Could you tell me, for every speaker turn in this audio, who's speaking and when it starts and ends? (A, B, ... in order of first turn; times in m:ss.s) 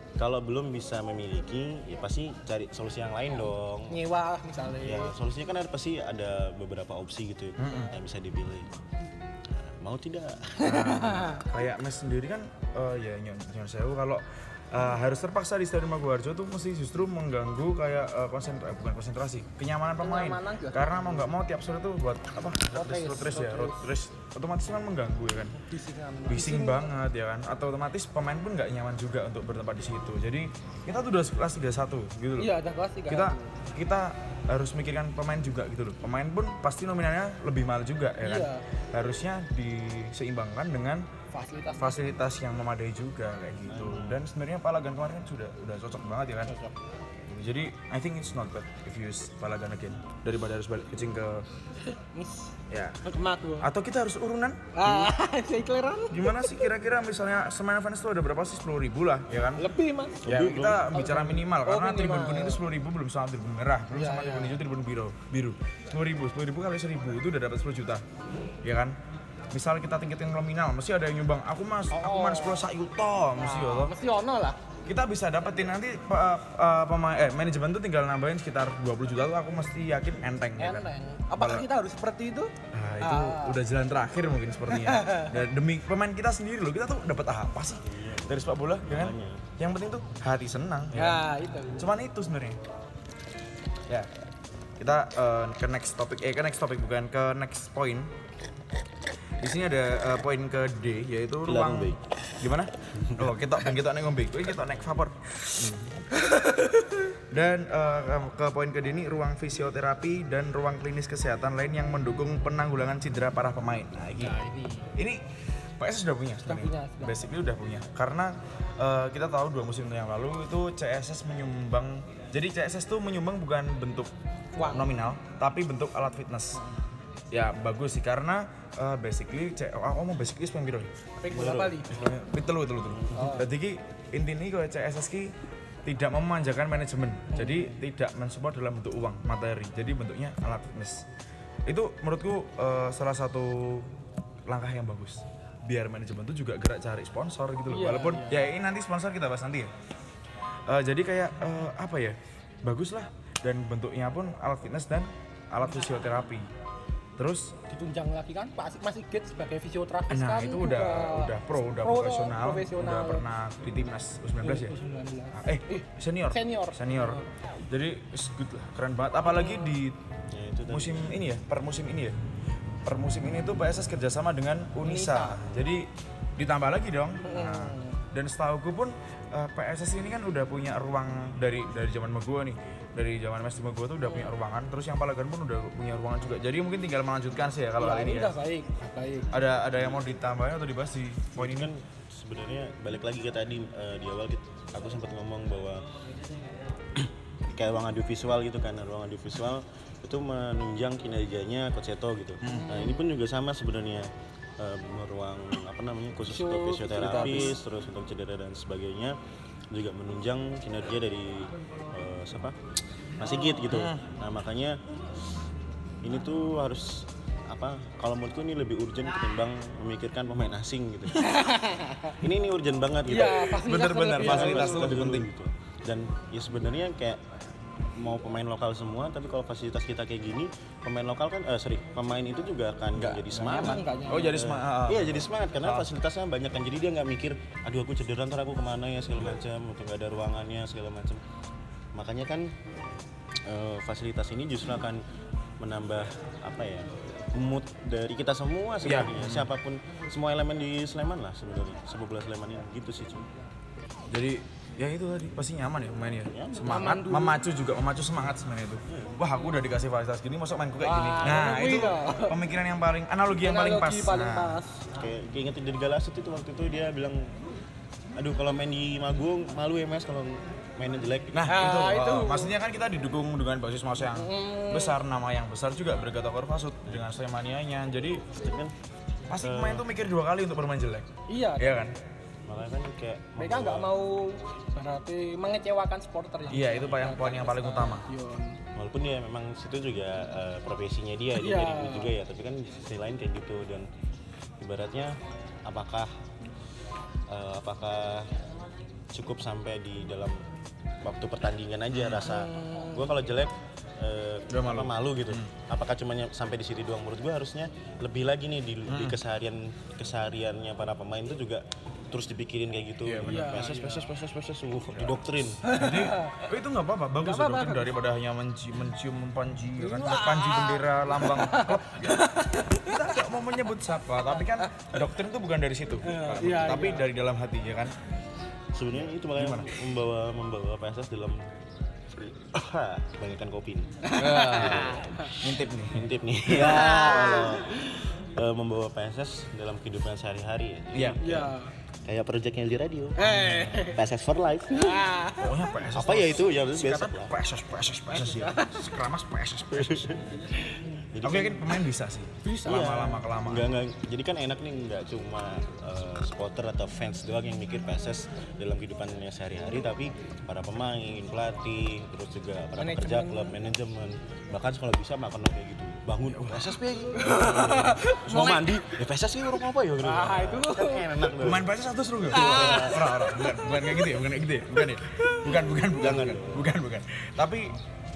0:00.2-0:04.0 A
0:03.9-0:05.1 B
0:04.8-0:08.7 A
0:07.6-0:07.9 C
0:09.6-0:10.8 A
0:10.6-0:11.4 B
0:10.6-0:25.6 C
0:20.0-0:21.3 B
0:22.7-0:23.9 B
0:25.6-0:26.9 B
0:26.3-0:32.6 C
0:32.4-0:33.6 B
0:33.1-0:41.1 C
0:38.2-0:38.6 B
0:41.3-0:42.0 B
0:41.8-0:46.5 C
0:43.7-0:44.2 A
0:47.3-0:51.5 C
0:51.9-0:53.7 B
0:52.7-0:53.0 C
0:53.6-0:55.1 C
0:54.7-0:56.6 B
0:56.1-0:59.7 C
0:59.6-1:02.6 B
1:00.2-1:00.8 A
1:00.2-1:08.0 C
1:03.9-1:04.6 B
1:08.6-1:09.0 C
1:09.5-1:14.0 C
1:11.9-1:12.7 B
1:13.4-1:14.6 B
1:14.9-1:21.7 C
1:20.6-1:23.6 B
1:22.7-1:32.6 C
1:24.7-1:25.3 B
1:27.9-1:28.3 A
1:28.8-1:29.5 A
1:30.9-1:31.9 B
1:34.8-1:38.1 C
1:39.4-1:54.4 C
1:41.5-1:42.0 A
1:43.0-1:43.2 A
1:45.6-1:45.9 A
1:54.2-1:54.9 B
1:55.0-2:06.6 C
1:56.5-1:57.2 B
2:04.6-2:05.0 B
2:07.3-2:10.9 C
2:11.2-2:12.0 B
2:11.3-2:11.7 A
2:11.8-2:15.3 C
2:13.0-2:13.2 A
2:13.1-2:13.5 B
2:15.8-2:21.1 C
2:17.3-2:17.8 B
2:21.7-2:23.9 C
2:24.5-2:29.7 C
2:27.7-2:28.4 B
2:30.7-2:36.5 C
2:37.2-2:37.5 C
2:37.7-2:43.2 B
2:40.1-2:44.8 C
2:44.4-2:47.2 B
2:45.3-2:50.0 C
2:49.2-2:49.8 B
2:50.3-2:51.2 A
2:50.7-2:52.2 C
2:52.8-3:08.4 C
2:54.8-2:55.4 B
2:57.2-2:58.0 B
3:04.0-3:04.3 B
3:07.8-3:09.4 B
3:09.3-3:11.7 C
3:11.4-3:15.9 A
3:17.0-3:29.2 A
3:22.4-3:22.7 C
3:22.4-3:23.0 B
3:26.3-3:27.5 B
3:27.0-3:27.6 C
3:29.7-3:32.6 A
3:33.2-3:34.8 A
3:33.7-3:34.1 C
3:36.0-3:41.3 A
3:41.1-3:42.2 B
3:42.2-3:47.2 A
3:43.1-3:45.0 B
3:43.6-3:45.3 C
3:48.0-4:01.2 A
3:52.9-3:55.9 C
3:53.4-3:54.4 B
4:02.0-4:02.5 A
4:03.4-4:05.0 A
4:05.6-4:13.3 A
4:08.8-4:09.5 C
4:14.1-4:24.6 C
4:16.3-4:16.8 A
4:16.6-4:17.4 B
4:20.8-4:22.4 B
4:23.4-4:24.8 B
4:24.9-4:27.3 A
4:28.2-4:31.5 A
4:31.3-4:38.3 C
4:31.5-4:32.5 B
4:34.1-4:35.0 B
4:38.2-4:38.7 A
4:39.3-4:42.0 C
4:39.4-4:39.8 A
4:41.3-4:41.8 B
4:42.5-4:43.9 A
4:43.4-4:48.6 B
4:46.5-4:48.1 C
4:48.8-4:53.9 A
4:51.4-4:52.1 B
4:54.6-4:56.1 A
4:57.3-4:58.3 A
4:59.1-5:00.4 A
5:01.0-5:15.7 A
5:01.9-5:02.3 C
5:02.2-5:03.2 B
5:04.5-5:05.5 C
5:08.9-5:09.2 C
5:13.0-5:13.6 C
5:13.2-5:14.1 B
5:14.9-5:28.0 C
5:15.6-5:16.4 B
5:17.2-5:17.9 B
5:19.8-5:23.0 B
5:26.0-5:27.1 B
5:28.7-5:31.5 A
5:29.2-5:29.8 C
5:32.1-5:41.5 A
5:34.0-5:35.3 B
5:34.2-5:36.1 C
5:36.5-5:37.8 B
5:40.9-5:41.5 C
5:41.2-5:41.7 B
5:42.1-5:45.1 A
5:43.2-5:44.0 B
5:43.3-5:43.9 C
5:44.7-5:45.6 B
5:45.4-5:50.2 C
5:45.9-5:47.3 A
5:48.1-5:48.9 B
5:49.7-5:50.2 A
5:51.1-5:51.7 A
5:51.2-5:53.7 C
5:52.4-5:53.2 B
5:52.7-6:11.7 A
6:02.8-6:03.6 B
6:06.3-6:06.8 C
6:07.2-6:08.8 B
6:10.0-6:11.2 B
6:11.4-6:17.8 C
6:12.3-6:13.1 A
6:12.3-6:13.9 B
6:15.8-6:16.7 A